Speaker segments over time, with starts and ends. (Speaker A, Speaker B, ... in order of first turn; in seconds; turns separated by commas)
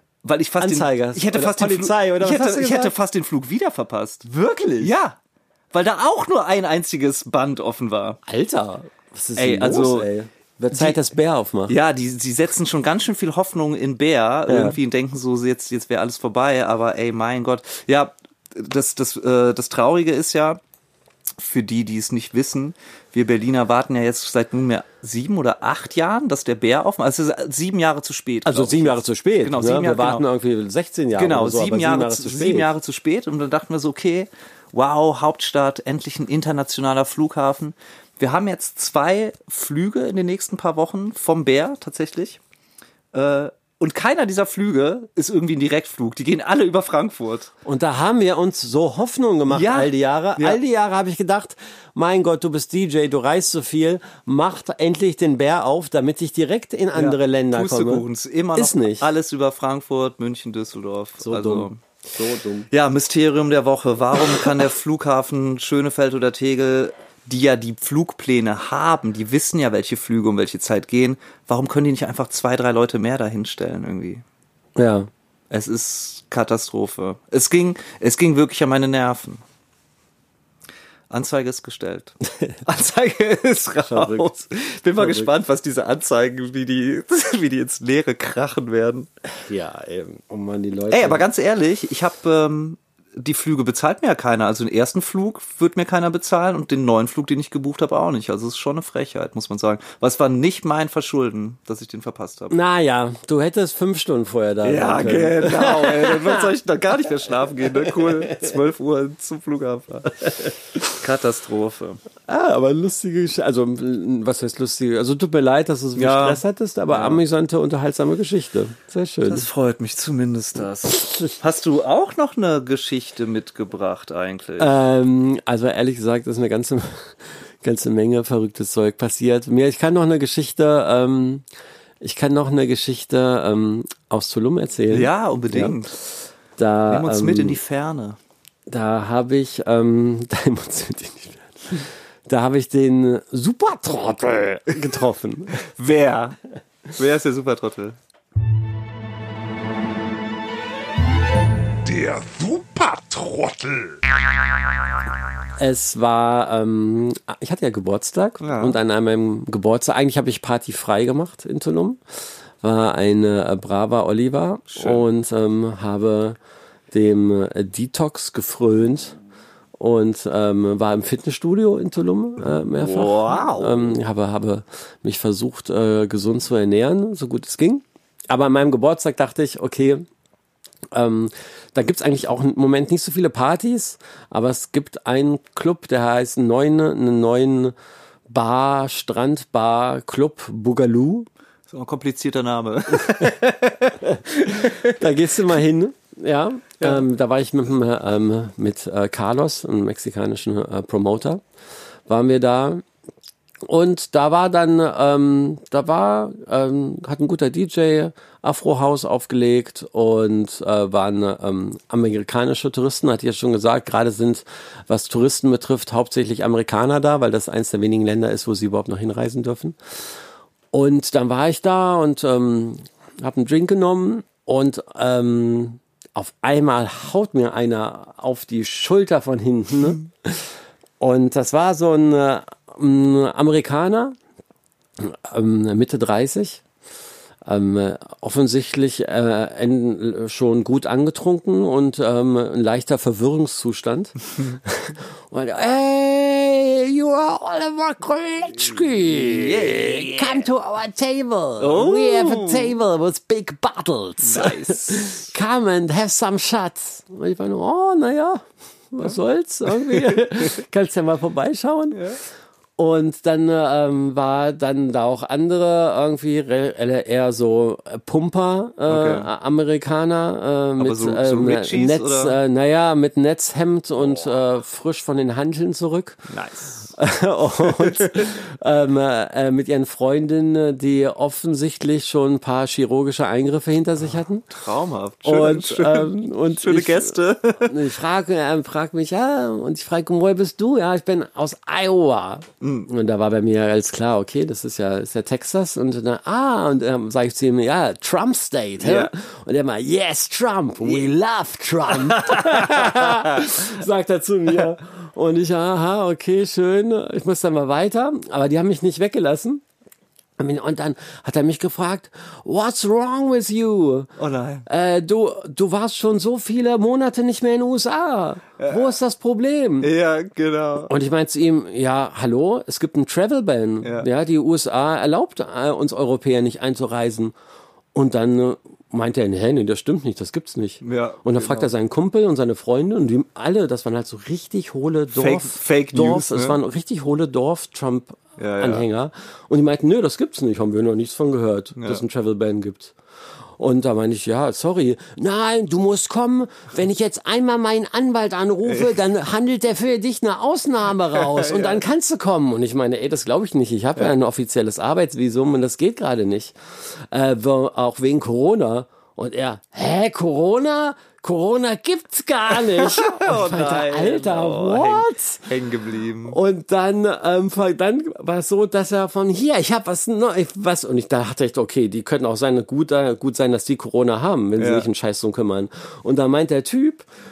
Speaker A: 0.2-4.3, Speaker B: 0.6-2.9, Speaker B: 4.2-4.9, Speaker A: 4.8-5.2, Speaker A: 5.7-8.2, Speaker B: 8.2-11.8, Speaker A: 9.3-10.1, Speaker A: 10.7-11.0, Speaker A: 11.7-20.6, Speaker B: 14.5-14.8, Speaker A: 21.4-30.2, Speaker B: 28.4-32.7, Speaker A: 31.1-42.4, Speaker A: 43.1-47.5, Speaker B: 47.6-59.1, Speaker A: 49.5-50.6, Speaker A: 56.9-61.8, Speaker B: 61.2-62.7, Speaker A: 62.7-74.2, Speaker B: 74.8-75.1, Speaker A: 75.5-79.4, Speaker A: 81.1-89.1, Speaker B: 83.8-84.3, Speaker B: 85.0-85.3, Speaker B: 89.3-91.2, Speaker A: 90.9-102.6, Speaker B: 102.5-106.5, Speaker A: 104.6-110.3, Speaker B: 107.8-108.5, Speaker A: 110.8-112.0, Speaker B: 112.3-119.4, Speaker A: 116.0-117.2, Speaker A: 119.2-124.7, Speaker B: 124.6-131.4, Speaker B: 132.0-135.8, Speaker A: 134.9-135.9, Speaker B: 136.6-137.6, Speaker A: 136.9-138.2, Speaker B: 138.7-145.6, Speaker A: 145.6-146.4, Speaker A: 146.9-148.0, Speaker C: 151.8-154.0, Speaker B: 155.6-162.0, Speaker A: 158.4-158.8, Speaker B: 162.6-166.4, Speaker A: 164.7-165.0, Speaker B: 166.9-169.1, Speaker B: 169.8-180.0, Speaker A: 172.8-174.0, Speaker B: 180.9-187.7, Speaker B: 188.3-191.3, Speaker A: 191.7-195.0, Speaker B: 194.0-201.4, Speaker B: 202.1-202.8, Speaker B: 203.7-219.8, Speaker B: 220.7-234.2, Speaker B: 235.0-236.6, Speaker B: 237.4-262.0, Speaker A: 249.0-250.4, Speaker A: 251.6-252.7, Speaker A: 254.2-255.3, Speaker A: 259.8-260.2, Speaker A: 261.9-262.2, Speaker B: 262.8-276.2, Speaker A: 268.9-269.3, Speaker A: 270.8-272.4, Speaker A: 276.3-276.9, Speaker B: 276.9-284.5, Speaker A: 277.7-278.3, Speaker A: 284.5-287.8, Speaker B: 285.2-309.6, Speaker A: 292.6-292.9, Speaker A: 298.8-299.1, Speaker A: 301.9-303.5, Speaker B: 310.4-314.1, Speaker A: 314.2-314.6, Speaker B: 314.6-319.9, Speaker A: 318.6-318.9, Speaker A: 319.8-320.9, Speaker B: 320.9-327.3, Speaker A: 323.8-324.1, Speaker B: 327.9-342.9, Speaker A: 330.8-331.7, Speaker A: 335.1-336.6, Speaker A: 338.4-338.9, Speaker A: 341.8-342.0, Speaker B: 343.6-365.5, Speaker A: 348.6-348.9, Speaker A: 351.3-351.8, Speaker A: 362.7-366.4, Speaker B: 366.3-377.1, Speaker A: 374.6-374.9